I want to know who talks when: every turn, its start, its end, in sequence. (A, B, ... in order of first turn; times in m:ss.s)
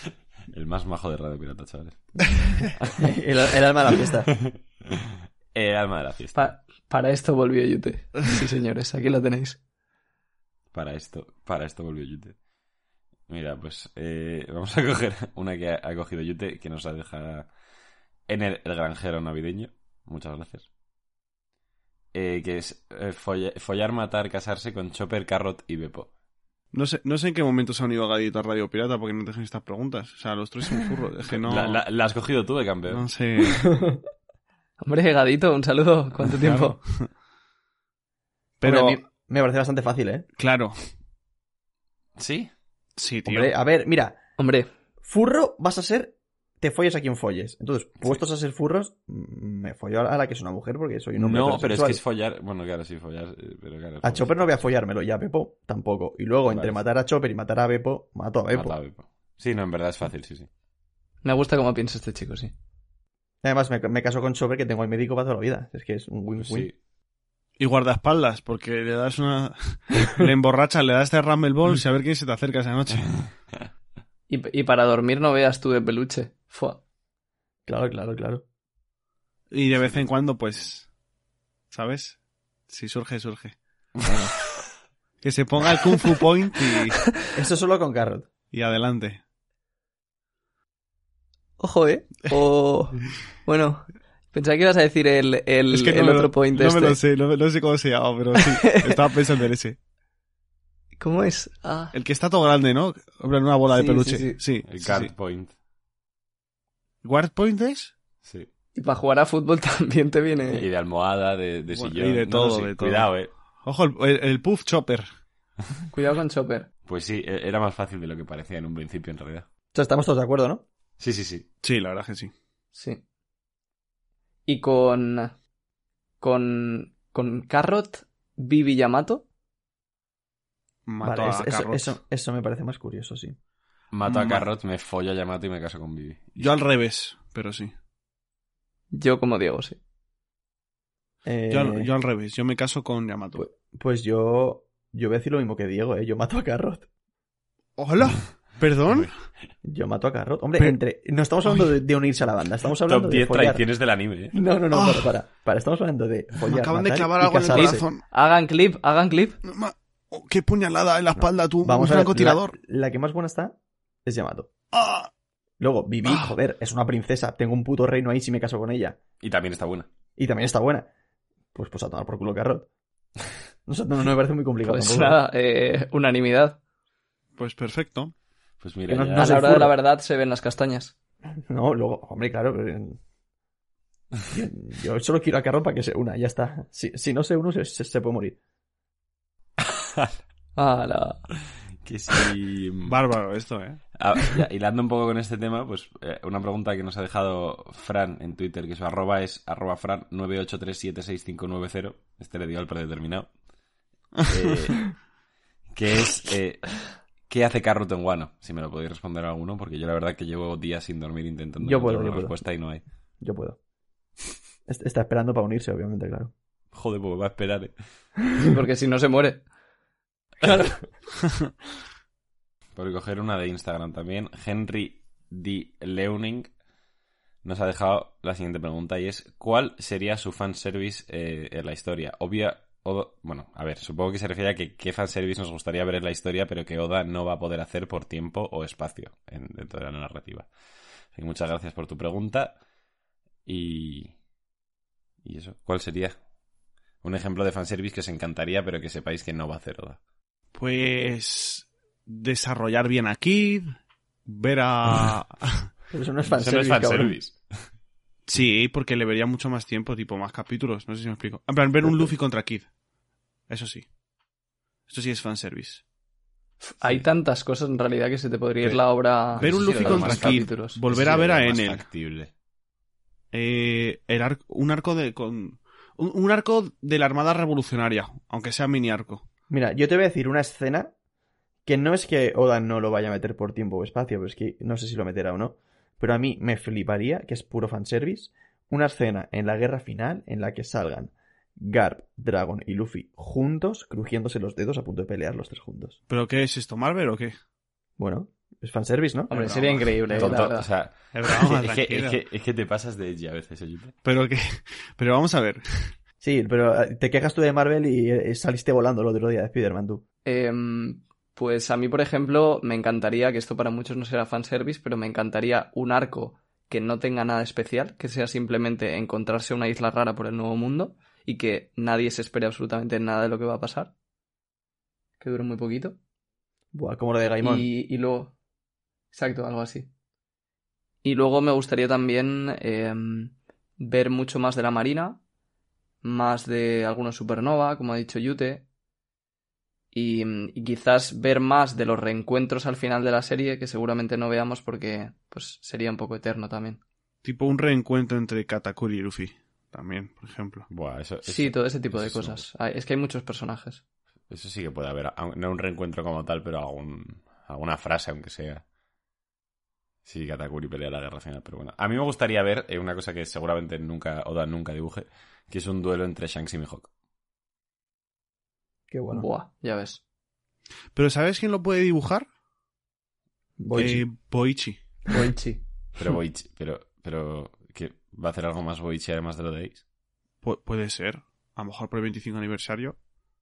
0:00.5-0:03.0 A
0:03.0-0:04.3 B
0:04.4-0:06.5 A
0:06.4-0:09.6 C
0:10.7-0:12.4 A
0:13.3-0:17.5 A
0:18.3-0:20.7 A
0:22.1-0:26.1 A
0:26.7-0:31.8 D
0:31.3-0:33.1 A
0:32.9-0:33.6 D
0:33.5-0:34.0 B
0:34.8-0:36.8 C
0:36.4-0:37.1 D
0:38.6-0:39.0 D
0:38.6-0:40.3 B
0:40.4-0:40.8 D
0:42.2-0:42.5 A
0:43.0-0:43.5 D
0:43.2-0:44.2 B
0:44.4-0:44.7 C
0:45.0-0:52.0 B
0:51.2-0:54.6 A
0:54.0-0:58.8 B
0:56.5-0:56.8 A
0:58.5-1:00.5 A
1:01.2-1:02.5 C
1:03.4-1:06.7 B
1:06.4-1:06.8 A
1:07.6-1:13.3 D
1:14.3-1:16.8 C
1:17.7-1:18.4 B
1:19.5-1:20.9 D
1:21.7-1:22.2 D
1:22.7-1:23.6 D
1:24.0-1:24.3 B
1:25.2-1:27.0 D
1:27.4-1:28.3 B
1:28.5-1:29.2 D
1:31.6-1:37.0 C
1:35.7-1:39.8 D
1:38.4-1:38.9 C
1:41.0-1:41.9 C
1:41.9-1:45.1 D
1:43.7-1:44.4 C
1:44.7-1:45.5 A
1:47.0-1:47.9 D
1:48.8-1:50.7 C
1:50.5-1:53.3 A
1:51.7-1:53.1 D
1:53.6-1:55.1 D
1:55.9-1:56.7 C
1:56.8-1:59.5 A
1:59.7-2:00.6 B
2:01.0-2:01.5 A
2:01.6-2:02.3 D
2:02.7-2:03.0 C
2:04.5-2:05.3 C
2:06.2-2:09.2 C
2:10.9-2:12.0 D
2:11.0-2:13.4 B
2:13.9-2:16.5 A
2:14.1-2:14.5 D
2:16.4-2:17.7 D
2:18.9-2:19.8 C
2:21.2-2:21.9 B
2:21.5-2:23.5 D
2:23.4-2:26.9 B
2:27.8-2:29.1 D
2:29.6-2:33.6 B
2:32.8-2:34.4 A
2:34.3-2:37.9 B
2:34.7-2:35.1 D
2:36.4-2:38.0 D
2:37.5-2:39.4 C
2:39.4-2:42.6 D
2:41.2-2:44.5 B
2:44.7-2:45.1 D
2:45.6-2:49.0 B
2:46.1-2:46.4 D
2:49.2-2:49.9 A
2:50.2-2:50.9 B
2:51.5-2:52.7 B
2:53.7-2:55.2 B
2:54.6-2:56.6 C
2:57.4-2:58.1 D
2:58.6-2:59.6 A
2:58.9-2:59.7 B
2:59.2-3:00.9 C
3:01.5-3:03.0 B
3:04.3-3:08.4 B
3:09.7-3:10.1 A
3:10.6-3:11.3 C
3:11.8-3:13.0 A
3:12.9-3:13.8 D
3:14.0-3:23.3 A
3:24.2-3:25.0 A
3:25.7-3:32.8 A
3:31.6-3:32.4 B
3:33.2-3:33.6 B
3:34.7-3:36.3 B
3:36.7-3:37.8 A
3:38.4-3:39.4 C
3:40.4-3:40.8 C
3:42.8-3:46.5 A
3:47.4-4:00.5 A
4:01.1-4:02.6 A
4:03.5-4:04.2 A
4:05.2-4:06.2 A
4:07.0-4:10.0 A
4:10.6-4:13.7 D
4:14.3-4:15.7 D
4:15.9-4:17.2 B
4:16.3-4:17.7 A
4:18.3-4:22.7 D
4:23.5-4:23.9 D
4:24.9-4:25.8 D
4:26.6-4:30.8 C
4:29.4-4:32.3 A
4:29.4-4:31.8 D
4:33.3-4:39.2 D
4:39.5-4:40.9 B
4:41.6-4:56.0 B
4:56.1-4:57.4 D
4:58.0-5:00.5 B
4:59.3-5:00.7 C
4:59.3-4:59.8 D
5:00.1-5:04.0 A
5:01.1-5:02.2 D
5:04.0-5:05.9 D
5:06.2-5:10.0 B
5:10.2-5:23.9 C
5:25.2-5:26.0 C
5:26.7-5:27.7 B
5:27.4-5:28.3 C
5:29.1-5:29.9 C
5:31.0-5:35.2 C
5:36.0-5:38.6 C
5:39.9-5:46.8 C
5:47.2-5:50.7 D
5:50.7-5:52.5 A
5:51.2-5:53.8 C
5:54.3-5:58.6 A
6:00.0-6:06.9 A
6:08.9-6:09.3 B
6:09.1-6:10.0 C
6:10.9-6:12.3 D
6:13.6-6:14.1 B
6:13.8-6:14.8 D
6:15.1-6:15.6 C
6:16.0-6:19.8 A
6:20.4-6:23.0 D